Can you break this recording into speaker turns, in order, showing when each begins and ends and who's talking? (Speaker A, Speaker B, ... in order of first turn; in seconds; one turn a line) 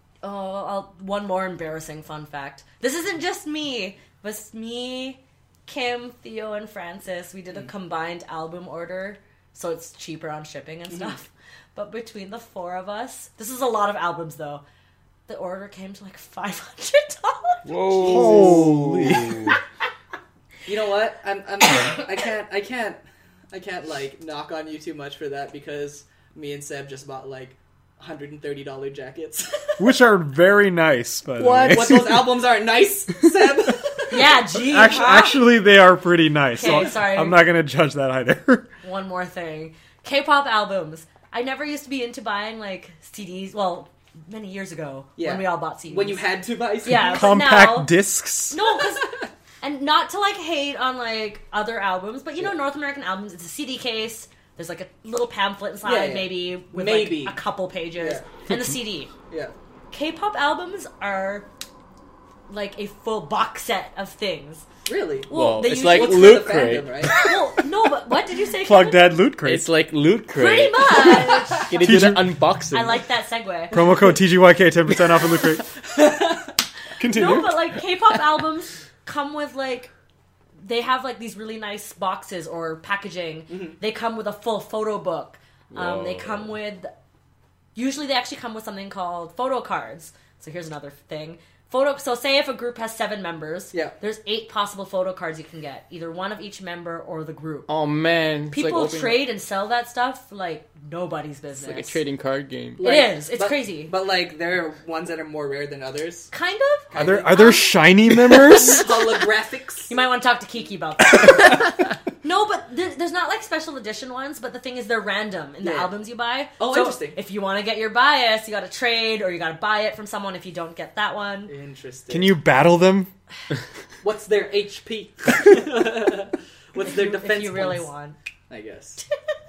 Speaker A: 0.2-14.6
Speaker A: 15.3-17.9
Speaker B: 17.6-19.6
Speaker C: 17.9-18.6
Speaker D: 18.0-19.5
Speaker C: 20.6-23.0
Speaker C: 23.5-29.8
Speaker D: 29.8-32.4
Speaker C: 31.4-34.3
Speaker A: 34.1-35.5
Speaker D: 34.5-38.7
Speaker A: 36.5-37.4
Speaker A: 38.8-46.2
Speaker C: 45.2-47.4
Speaker A: 46.8-48.0
Speaker D: 47.0-48.5
Speaker A: 48.5-59.1
Speaker C: 55.8-57.4
Speaker C: 58.0-58.2
Speaker C: 59.3-59.5
Speaker A: 59.9-61.5
Speaker A: 62.5-64.6
Speaker C: 64.8-67.1
Speaker A: 65.3-69.2
Speaker B: 65.3-67.0
Speaker D: 68.6-69.7
Speaker B: 69.4-73.0
Speaker A: 70.3-71.8
Speaker D: 71.8-72.4
Speaker A: 72.7-73.8
Speaker D: 73.7-75.7
Speaker C: 75.8-76.5
Speaker D: 77.0-77.7
Speaker A: 77.1-79.9
Speaker A: 80.6-86.9
Speaker C: 83.5-83.8
Speaker B: 85.7-86.5
Speaker A: 87.7-97.7
Speaker B: 97.7-99.2
Speaker A: 98.5-102.0
Speaker B: 101.6-102.8
Speaker C: 102.8-106.3
Speaker A: 102.8-103.9
Speaker A: 106.3-109.0
Speaker C: 106.9-107.6
Speaker D: 106.9-108.9
Speaker C: 108.4-109.9
Speaker A: 109.9-121.5
Speaker C: 115.6-115.9
Speaker C: 116.6-117.2
Speaker C: 121.5-122.4
Speaker D: 122.1-123.1
Speaker C: 124.0-127.9
Speaker A: 126.8-128.2
Speaker C: 128.5-129.0